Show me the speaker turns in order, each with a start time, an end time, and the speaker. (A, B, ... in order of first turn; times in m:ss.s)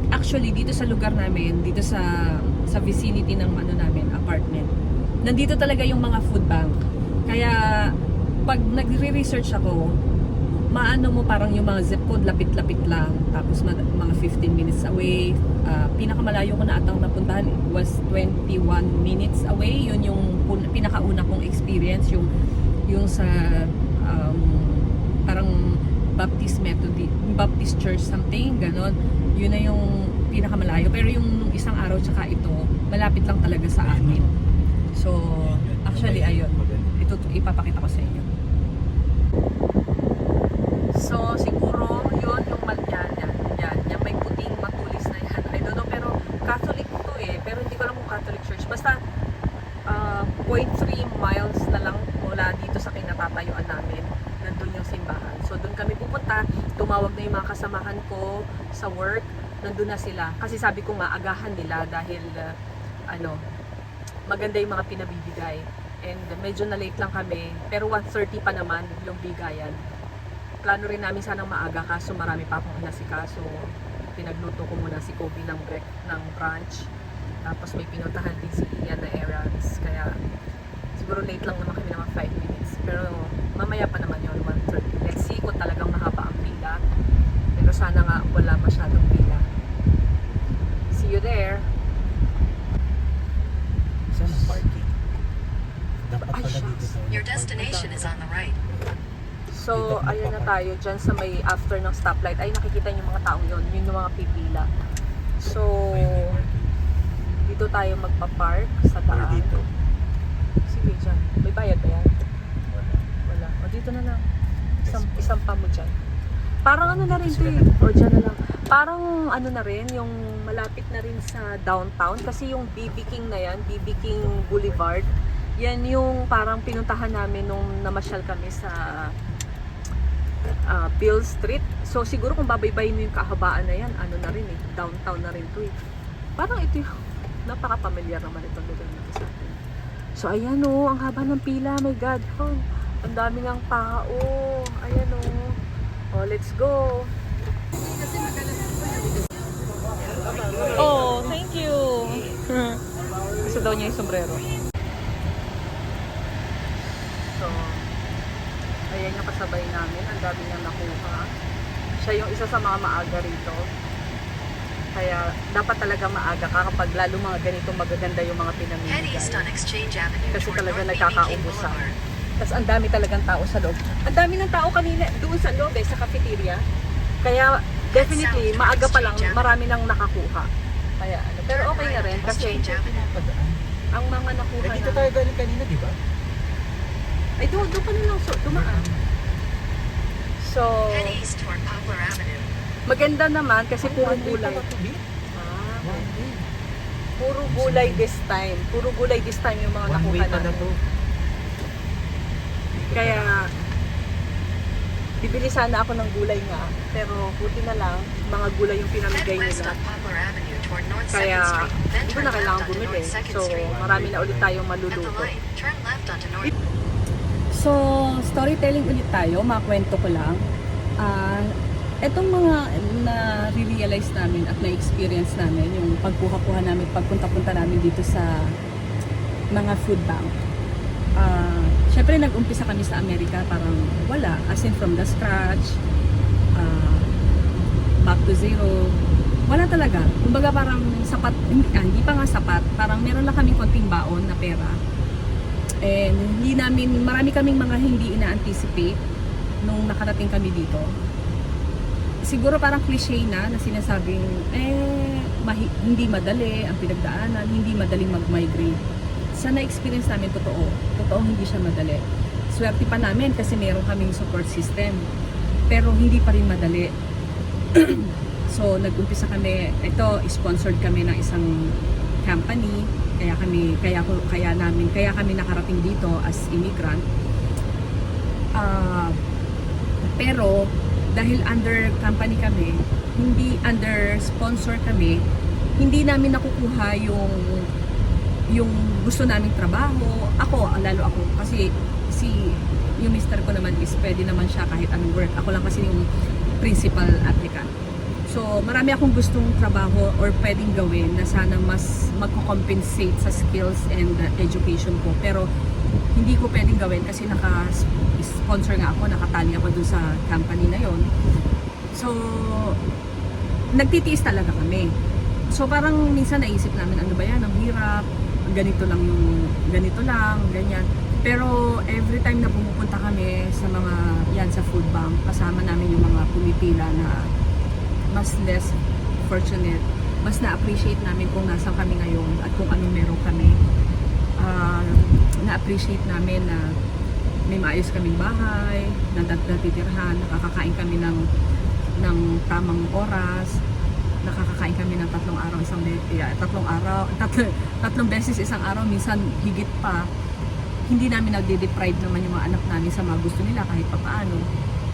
0:00.1-0:04.7 A
0:05.2-0:06.7 A
0:07.3-0:07.7 A
0:08.5-0:09.9 A
0:10.7-0:22.3 A
0:22.9-0:25.6 A
0:26.2-0:34.3 A
0:33.8-0:34.4 B
0:34.9-0:38.3 A
0:35.4-0:37.0 B
0:40.9-0:49.0 A
0:49.9-1:02.5 A
1:03.1-1:03.4 A
1:04.3-1:09.8 A
1:10.6-1:16.9 A
1:17.4-1:20.2 A
1:21.0-1:26.8 A
1:27.6-1:29.5 A
1:30.9-1:31.7 A
1:34.1-1:34.9 B
1:36.0-1:37.8 B
1:36.2-1:36.9 A
1:37.1-1:38.6 C
1:37.6-1:38.1 A
1:39.5-1:44.7 A
1:39.7-1:40.5 B
1:45.4-1:46.4 A
1:45.9-1:46.8 B
1:47.4-1:49.5 A
1:49.1-1:49.7 B
1:50.7-1:52.1 A
1:52.7-1:53.1 B
1:53.2-1:54.2 A
1:54.8-1:55.4 B
1:54.8-1:56.0 A
1:56.6-2:05.1 A
1:56.8-1:57.7 B
2:04.1-2:04.9 B
2:05.6-2:09.1 A
2:10.7-2:15.7 A
2:16.4-2:16.9 A
2:17.5-2:19.6 A
2:20.2-2:25.6 A
2:26.1-2:27.1 A
2:30.7-2:32.8 A
2:33.4-2:34.4 A
2:37.2-2:37.9 A
2:38.9-2:41.3 A
2:42.0-2:43.6 A
2:45.0-2:49.5 A
2:48.9-2:51.9 C
2:50.3-2:51.8 A
2:52.4-2:56.6 A
2:57.2-3:02.6 A
2:57.9-2:59.5 C
3:01.5-3:03.1 C
3:02.3-3:03.6 B
3:03.9-3:05.1 A
3:04.6-3:06.0 B
3:07.4-3:08.8 A
3:08.5-3:09.0 B
3:10.4-3:11.2 A
3:10.9-3:12.5 C
3:12.9-3:14.6 A
3:13.8-3:15.0 B
3:15.4-3:16.1 A
3:15.8-3:16.4 B
3:17.2-3:20.7 A
3:17.5-3:18.0 B
3:19.9-3:20.8 B
3:22.7-3:23.6 B
3:22.9-3:23.5 A
3:25.2-3:29.8 A
3:29.1-3:33.7 C
3:31.1-3:35.3 A
3:33.6-3:34.6 B
3:34.9-3:36.5 C
3:37.5-3:40.4 A
3:41.0-3:48.4 A
3:49.5-3:50.4 A
3:51.2-3:55.8 A
3:56.6-3:57.1 A
3:58.0-4:04.8 A
4:05.8-4:09.0 A
4:09.6-4:10.9 A
4:12.2-4:18.8 A
4:19.4-4:25.0 A
4:25.7-4:26.9 A
4:27.7-4:31.5 A
4:32.2-4:37.0 A
4:38.6-4:39.2 A
4:40.1-4:45.2 A
4:45.8-4:47.6 A
4:48.5-4:56.0 A
4:56.6-4:57.7 A
4:58.3-5:05.4 A
5:06.1-5:11.0 A
5:11.9-5:12.8 A
5:13.8-5:14.9 A
5:15.5-5:18.0 A
5:18.5-5:27.3 A
5:28.1-5:33.6 A
5:34.4-5:36.8 A
5:37.5-5:41.2 A
5:42.0-5:43.6 A
5:44.2-5:50.0 A
5:50.9-5:54.5 A